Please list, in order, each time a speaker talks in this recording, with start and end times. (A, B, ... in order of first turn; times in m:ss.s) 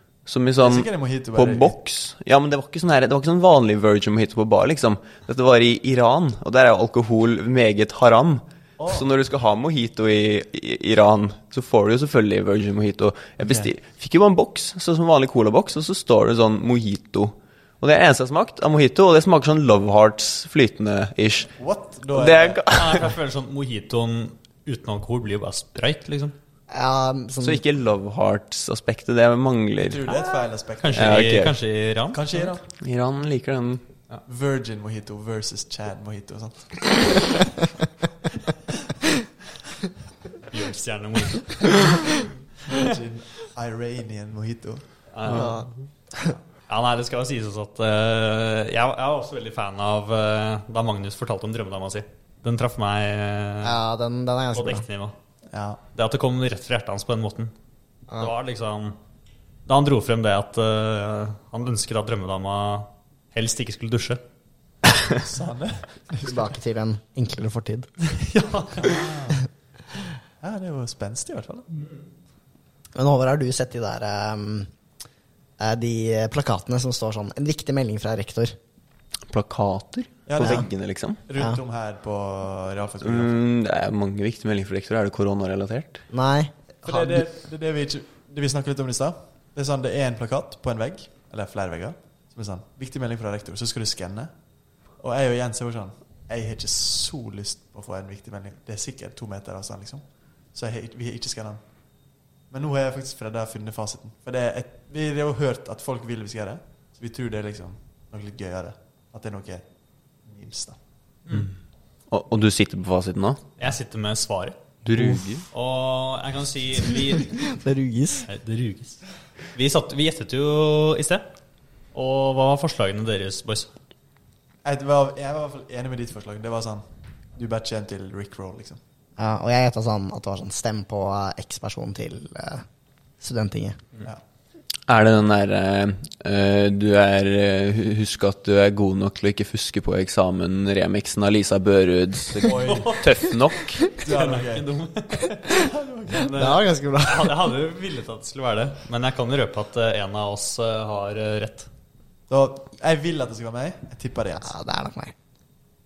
0:00.2-0:21.5 A
0:00.6-0:01.7 B
0:08.8-0:09.0 B
0:13.4-0:13.7 B
0:21.6-0:22.6 B
0:22.1-0:23.1 A
0:22.7-0:26.3 C
0:26.7-0:27.6 D
0:27.4-0:30.3 A
0:29.8-0:31.4 B
0:30.8-0:32.5 C
0:30.9-0:31.6 A
0:32.1-0:32.6 B
0:32.7-0:33.8 A
0:34.2-0:37.5 B
0:40.5-0:42.0 C
0:42.7-0:44.9 B
0:45.1-0:45.6 C
0:45.3-0:45.7 D
0:46.7-0:53.8 C
0:53.6-0:54.8 D
0:54.5-0:55.1 C
0:55.5-0:55.8 B
0:55.9-0:57.5 C
0:58.1-0:59.0 C
0:59.6-1:04.2 C
1:05.2-1:06.5 B
1:06.2-1:07.9 D
1:08.1-1:09.1 C
1:08.8-1:09.4 B
1:10.4-1:11.7 B
1:12.9-1:14.7 D
1:15.6-1:18.6 D
1:19.3-1:21.2 A
1:20.3-1:20.7 B
1:21.3-1:23.4 B
1:23.0-1:26.0 A
1:26.1-1:27.2 D
1:26.8-1:34.3 B
1:35.0-1:41.6 B
1:42.5-1:49.6 B
1:50.2-1:50.8 B
1:52.1-1:53.5 A
1:53.6-1:57.4 C
1:54.8-1:55.4 A
1:57.1-1:58.2 D
1:58.2-1:59.0 C
1:59.5-2:01.2 C
2:01.9-2:03.7 C
2:04.6-2:08.8 B
2:09.2-2:12.6 D
2:13.2-2:13.8 D
2:14.9-2:23.8 A
2:22.4-2:23.0 B
2:22.6-2:23.1 C
2:23.9-2:24.7 B
2:24.0-2:31.7 C
2:25.5-2:26.5 B
2:26.3-2:27.4 D
2:32.3-2:34.5 B
2:34.4-2:35.1 D